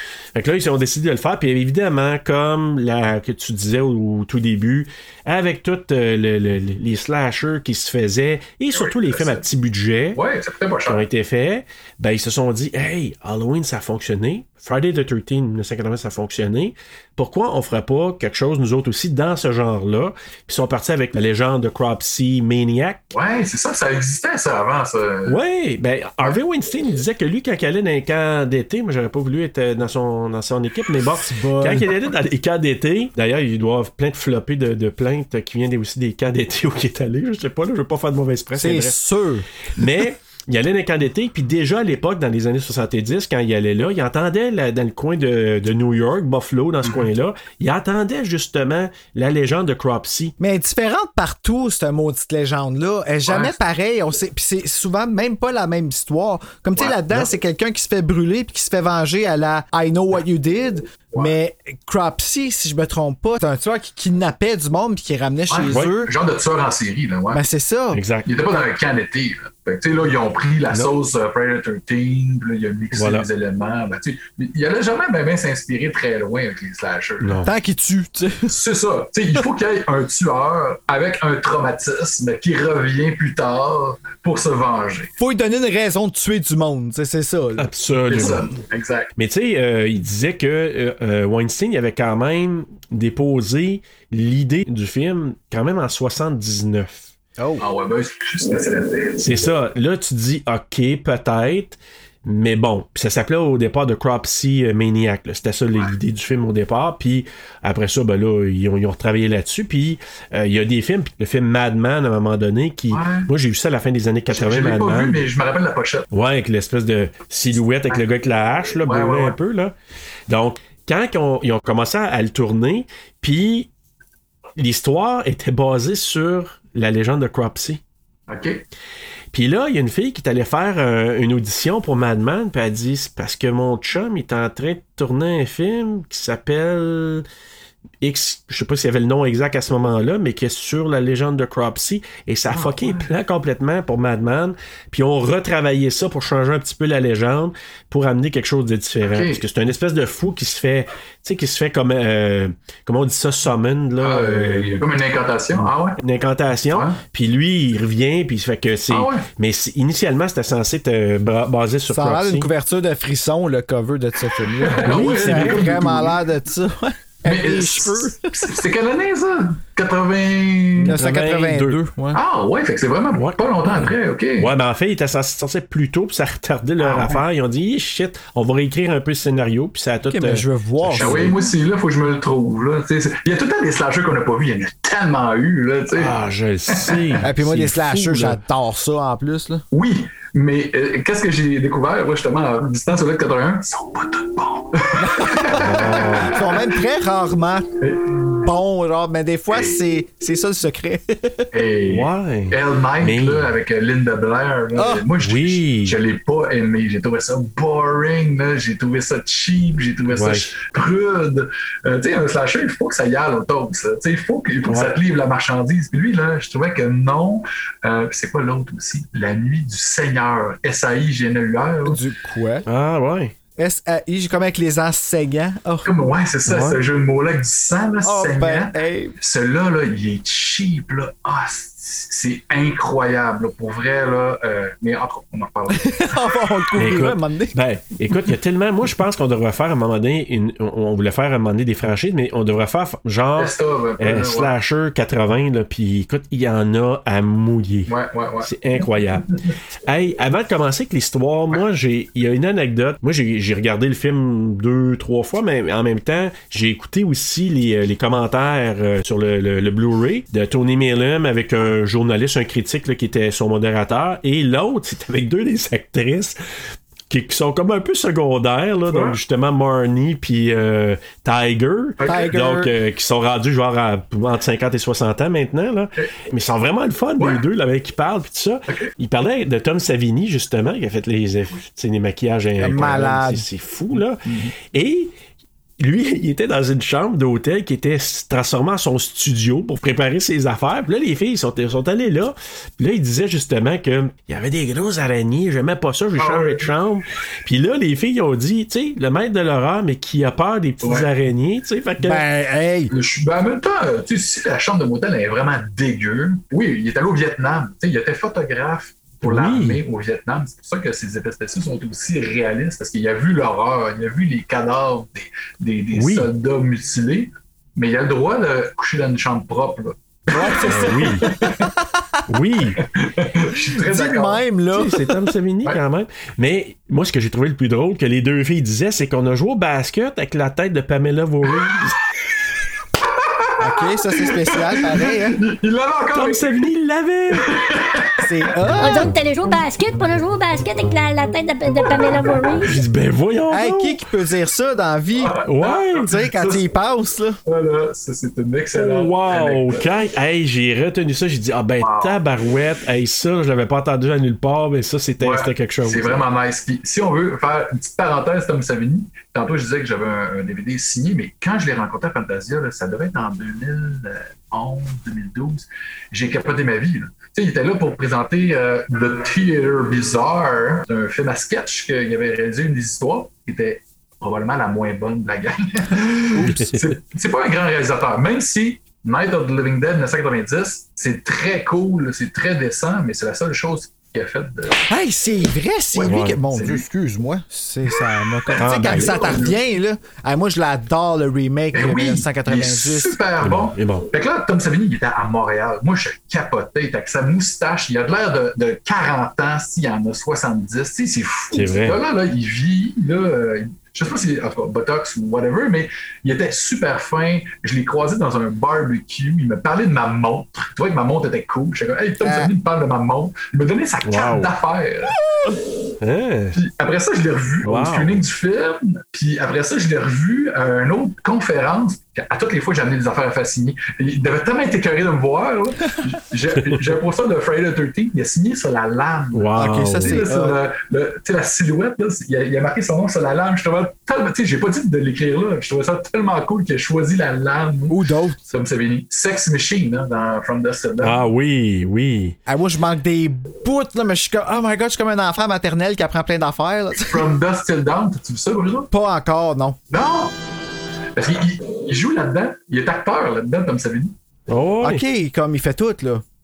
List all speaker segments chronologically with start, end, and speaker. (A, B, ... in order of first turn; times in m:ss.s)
0:00.3-0:10.2 A
0:08.7-0:09.4 B
0:10.1-0:11.1 B
0:10.8-0:23.1 A
0:23.1-0:25.4 B
0:25.2-0:39.0 A
0:31.2-0:31.9 C
0:38.6-0:39.4 C
0:39.7-0:50.3 A
0:50.4-1:06.1 C
0:53.2-0:53.6 B
0:56.8-0:57.2 B
1:05.5-1:07.4 B
1:07.3-1:08.0 C
1:07.9-1:08.3 A
1:08.2-1:17.4 B
1:12.9-1:13.2 A
1:17.2-1:17.5 A
1:17.4-1:18.5 C
1:18.5-1:25.1 B
1:25.2-1:27.7 C
1:27.6-1:28.5 A
1:28.1-1:29.1 B
1:29.2-1:37.1 A
1:37.4-1:37.6 C
1:37.6-1:39.3 B
1:39.2-1:55.3 A
1:52.9-1:53.3 B
1:54.3-1:56.1 B
1:56.1-1:59.7 A
1:58.8-1:59.4 B
2:00.3-2:03.7 A
2:04.6-2:07.8 A
2:08.3-2:08.6 B
2:09.3-2:17.2 A
2:18.0-2:34.8 A
2:22.5-2:23.1 B
2:29.0-2:29.4 B
2:34.0-2:36.0 B
2:35.6-2:42.5 A
2:36.7-2:37.0 B
2:38.9-2:39.3 B
2:41.9-2:48.5 C
2:44.6-2:46.2 B
2:44.8-2:45.6 A
2:47.2-2:51.0 B
2:50.8-2:52.2 C
2:50.9-2:51.8 A
2:52.1-2:54.5 B
2:53.1-3:01.3 A
2:56.8-2:57.2 B
3:00.1-3:01.4 C
3:00.9-3:06.1 B
3:05.9-3:08.4 A
3:06.7-3:07.2 B
3:07.2-3:09.6 C
3:09.7-3:16.7 B
3:15.0-3:15.6 C
3:15.5-3:16.4 A
3:16.2-3:17.7 C
3:17.8-3:18.4 B
3:18.4-3:21.4 C
3:19.5-3:19.8 B
3:21.5-3:42.0 B
3:21.9-3:23.5 A
3:24.8-3:25.0 C
3:25.2-3:26.0 A
3:30.1-3:30.5 A
3:34.6-3:34.9 A
3:41.8-3:42.6 C
3:42.6-3:43.3 A
3:43.6-3:45.9 C
3:45.8-3:56.3 B
3:46.4-3:46.8 A
3:48.0-3:49.1 C
3:55.8-3:57.6 C
3:56.8-4:09.3 A
4:03.4-4:04.5 B
4:07.9-4:09.5 B
4:09.8-4:26.4 A
4:27.1-4:45.1 A
4:28.9-4:29.2 B
4:32.0-4:32.3 B
4:32.0-4:32.7 C
4:38.7-4:38.9 B
4:42.6-4:43.4 C
4:44.2-4:44.5 B
4:45.8-5:02.2 A
4:56.2-4:56.7 B
5:00.8-5:01.1 B
5:02.0-5:02.9 C
5:02.9-5:21.7 B
5:09.2-5:09.8 A
5:15.9-5:16.3 A
5:20.3-5:21.4 C
5:20.6-5:21.3 A
5:22.3-5:22.8 A
5:22.8-5:24.4 B
5:23.8-5:25.1 C
5:24.7-5:32.0 A
5:33.2-5:36.6 B
5:33.6-5:35.4 C
5:36.1-5:37.5 A
5:37.3-5:38.5 B
5:38.2-5:39.1 C
5:38.8-5:42.8 D
5:41.8-5:42.5 B
5:42.6-5:44.0 A
5:43.5-5:45.4 C
5:45.2-5:46.7 B
5:45.4-5:46.1 A
5:46.0-5:47.4 C
5:47.4-5:49.8 B
5:48.7-5:56.2 A
5:51.8-5:52.2 B
5:55.2-6:24.8 B
6:16.4-6:16.9 A
6:24.9-6:33.2 C
6:25.9-6:26.8 B
6:26.0-6:26.4 A
6:27.9-6:29.6 B
6:28.6-6:29.5 A
6:31.7-6:55.2 B
6:33.4-6:34.1 A
6:41.5-6:42.0 A
6:52.2-6:52.5 C
6:54.0-6:54.5 A
6:55.4-6:56.6 A
6:56.5-7:21.2 B
6:57.6-6:58.2 A
7:06.6-7:06.9 A
7:09.3-7:10.2 A
7:09.6-7:10.6 C
7:17.9-7:18.4 C
7:21.0-7:22.4 A
7:22.5-7:27.2 C
7:27.0-7:28.9 B
7:28.9-7:29.8 C
7:29.9-7:30.3 B
7:31.2-7:34.1 B
7:34.5-7:35.0 A
7:34.8-7:36.2 C